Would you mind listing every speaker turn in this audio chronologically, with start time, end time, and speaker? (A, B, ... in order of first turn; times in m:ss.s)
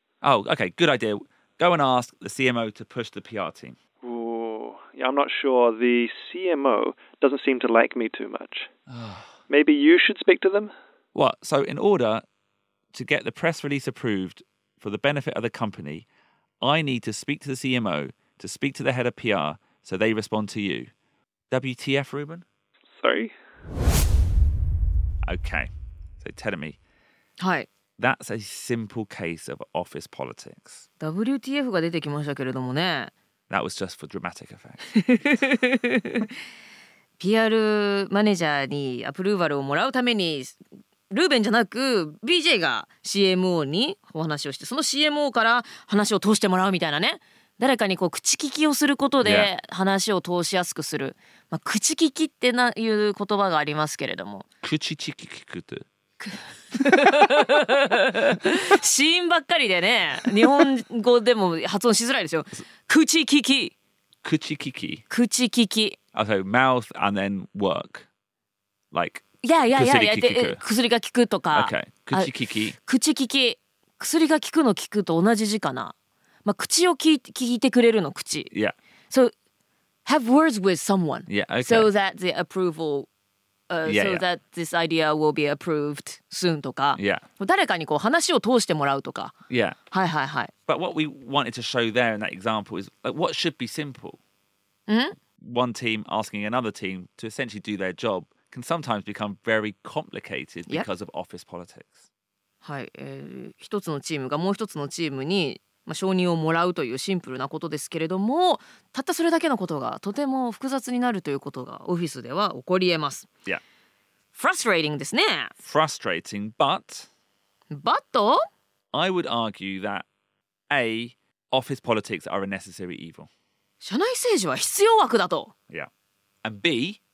0:00.2-0:03.8 A
0:04.0-0:08.7 B
0:08.9-0:09.4 A
0:09.5-0:10.7 B
0:11.1-0:12.2 A
0:12.9-0:16.1 A
0:16.6-0:20.9 A
0:21.5-0:22.4 A
0:23.0-0:23.3 B
0:25.2-0:25.7 A
0:26.2-0:26.8 A
0:27.4-0:27.7 C
0:28.0-0:30.8 A
0:31.0-0:33.1 C
0:33.5-0:35.4 A
0:35.0-0:36.3 C
0:37.2-0:40.6 C
0:41.1-0:54.4 C
0:49.2-0:49.5 A
0:54.6-0:55.9 A
0:56.2-1:03.7 C
1:04.2-1:05.0 A
1:05.1-1:06.0 C
1:06.1-1:08.1 A
1:08.9-1:10.6 A
1:09.4-1:15.9 C
1:11.5-1:12.8 A
1:16.4-1:18.5 C
1:20.0-1:23.1 C
1:21.3-1:21.9 A
1:23.7-1:29.3 C
1:23.8-1:24.2 A
1:27.0-1:27.2 A
1:29.5-1:29.8 A
1:29.9-1:30.5 C
1:30.7-1:34.2 A
1:34.9-1:35.2 C
1:35.4-1:42.0 A
1:42.6-1:53.3 C
1:54.3-1:55.5 C
1:55.6-1:57.1 A
1:57.7-1:58.4 C
1:58.9-2:00.1 A
2:00.7-2:03.3 A
2:03.8-2:05.5 C
2:06.4-2:07.0 A